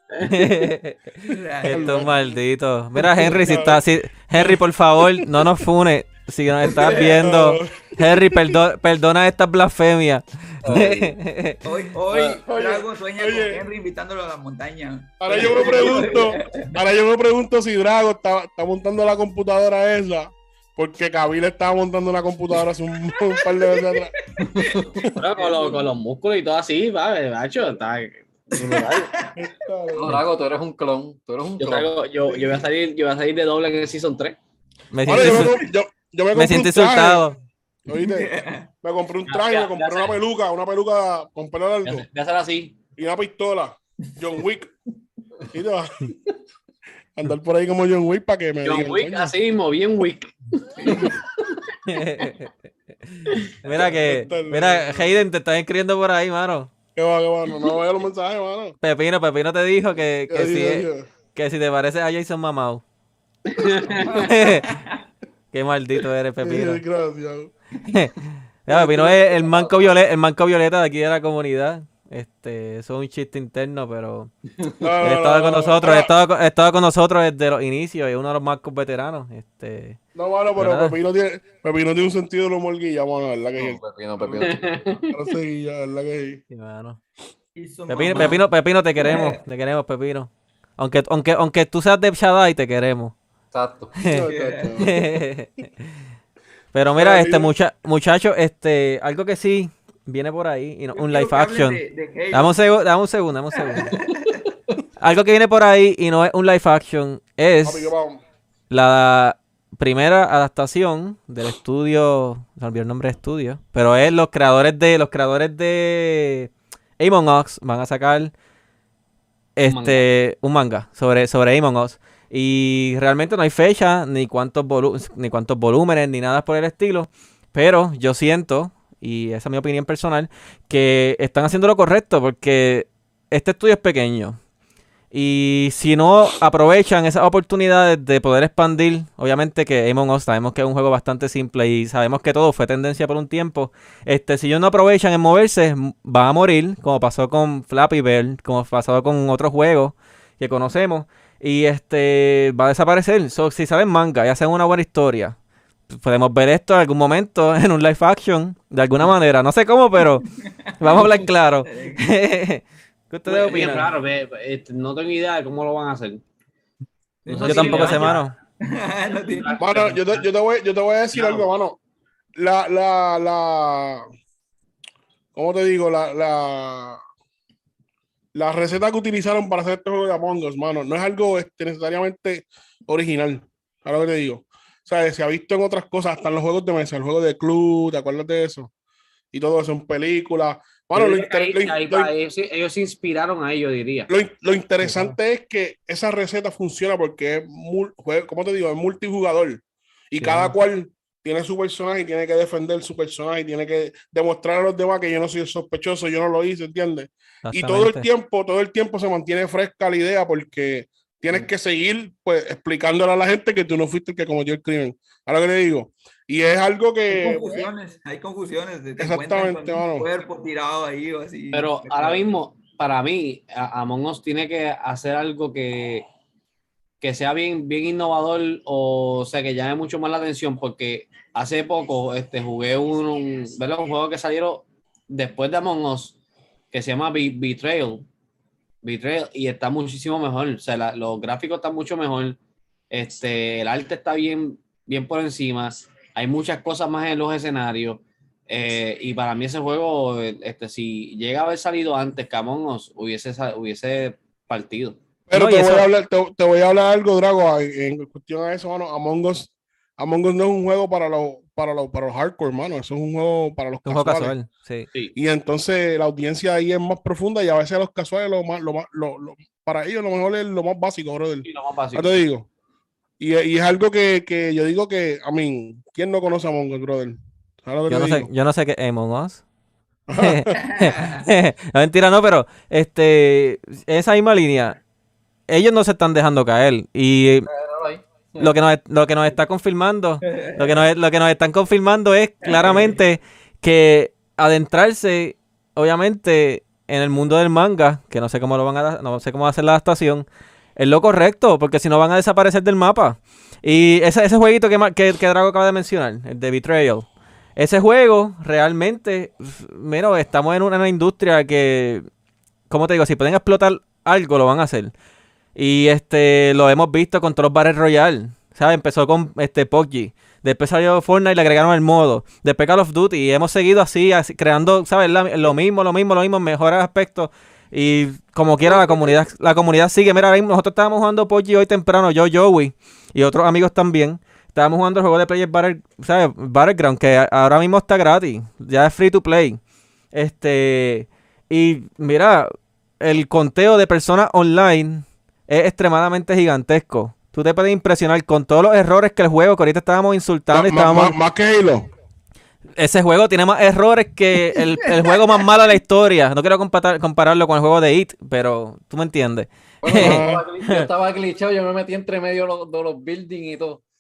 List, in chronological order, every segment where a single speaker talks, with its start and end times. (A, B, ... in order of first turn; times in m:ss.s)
0:00.2-0:11.6 A
0:01.3-0:02.3 B
0:01.7-0:02.2 C
0:03.2-0:03.8 C
0:06.6-0:07.2 B
0:06.9-0:08.6 C
0:10.6-0:11.2 D
0:11.6-0:16.7 B
0:12.1-0:13.6 C
0:15.2-0:24.1 C
0:23.4-0:24.7 B
0:24.4-0:25.0 D
0:25.2-0:29.0 E
0:25.4-0:25.8 B
0:28.6-0:29.4 B
0:29.4-0:30.2 C
0:29.9-0:31.9 D
0:31.6-0:34.4 E
0:34.9-0:35.7 A
0:35.0-0:37.2 C
0:36.3-0:37.4 A
0:37.9-0:42.1 C
0:37.9-0:38.7 B
0:39.3-0:40.1 E
0:41.9-0:42.8 E
0:43.0-0:44.7 C
0:45.5-0:46.1 C
0:47.2-0:49.4 C
0:48.6-0:51.1 E
0:50.8-0:51.2 B
0:51.9-0:52.5 A
0:53.1-0:56.7 A
0:54.0-0:55.2 C
0:57.0-0:58.8 C
0:58.8-1:02.8 A
1:00.3-1:01.1 C
1:03.5-1:04.3 E
1:04.0-1:04.9 B
1:04.2-1:04.7 A
1:05.5-1:06.8 A
1:06.4-1:07.5 C
1:07.9-1:14.3 A
1:08.7-1:09.2 C
1:14.8-1:16.1 C
1:15.0-1:20.0 A
1:20.2-1:23.8 C
1:20.6-1:21.0 A
1:23.6-1:25.0 D
1:24.4-1:25.0 E
1:25.1-1:26.4 C
1:26.5-1:27.0 A
1:27.6-1:29.4 B
1:27.9-1:33.2 A
1:33.5-1:33.9 D
1:34.0-1:34.2 A
1:34.1-1:35.1 C
1:34.3-1:34.7 B
1:34.8-1:35.7 A
1:36.7-1:43.9 A
1:37.0-1:37.5 C
1:40.9-1:42.6 B
1:43.5-1:44.3 B
1:45.0-1:47.9 A
1:47.6-1:48.2 C
1:48.7-1:58.3 A
1:59.6-2:14.4 A
1:59.7-2:00.0 E
2:15.1-2:35.4 A
2:35.9-2:40.3 A
2:40.8-2:43.9 A
2:40.8-2:42.0 B
2:43.3-2:46.2 E
2:47.2-2:49.5 B
2:47.3-2:48.2 E
2:47.4-2:48.4 A
2:49.3-2:50.3 E
2:49.6-2:51.8 C
2:51.1-2:51.4 E
2:52.4-2:54.1 C
2:55.4-2:57.0 C
2:58.3-3:08.7 C
3:09.3-3:12.1 C
3:11.0-3:14.1 E
3:14.1-3:37.7 C
3:14.8-3:15.1 A
3:20.2-3:20.5 A
3:27.5-3:28.1 A
3:37.1-3:42.2 B
3:39.0-3:40.1 C
3:41.5-3:46.1 E
3:47.0-3:56.2 E
3:56.7-3:58.1 E
3:58.8-4:02.4 E
4:02.9-4:15.0 E
4:15.3-4:24.3 C
4:15.3-4:15.9 A
4:23.9-4:24.9 A
4:25.2-4:32.5 C
4:31.4-4:32.2 E
4:33.2-4:38.3 C
4:37.9-4:39.4 A
4:40.1-4:40.6 C
4:40.2-4:44.8 A
4:40.8-4:41.2 B
4:45.5-4:47.5 A
4:47.5-4:48.6 D
4:48.4-5:12.1 A
4:50.3-4:50.8 B
4:52.5-4:52.8 B
5:12.7-5:14.9 A
5:15.6-5:39.6 A
5:28.6-5:29.2 B
5:40.1-5:51.2 A
5:50.5-5:51.9 C
5:52.8-6:00.9 A
5:59.8-6:03.8 D
6:00.0-6:00.4 C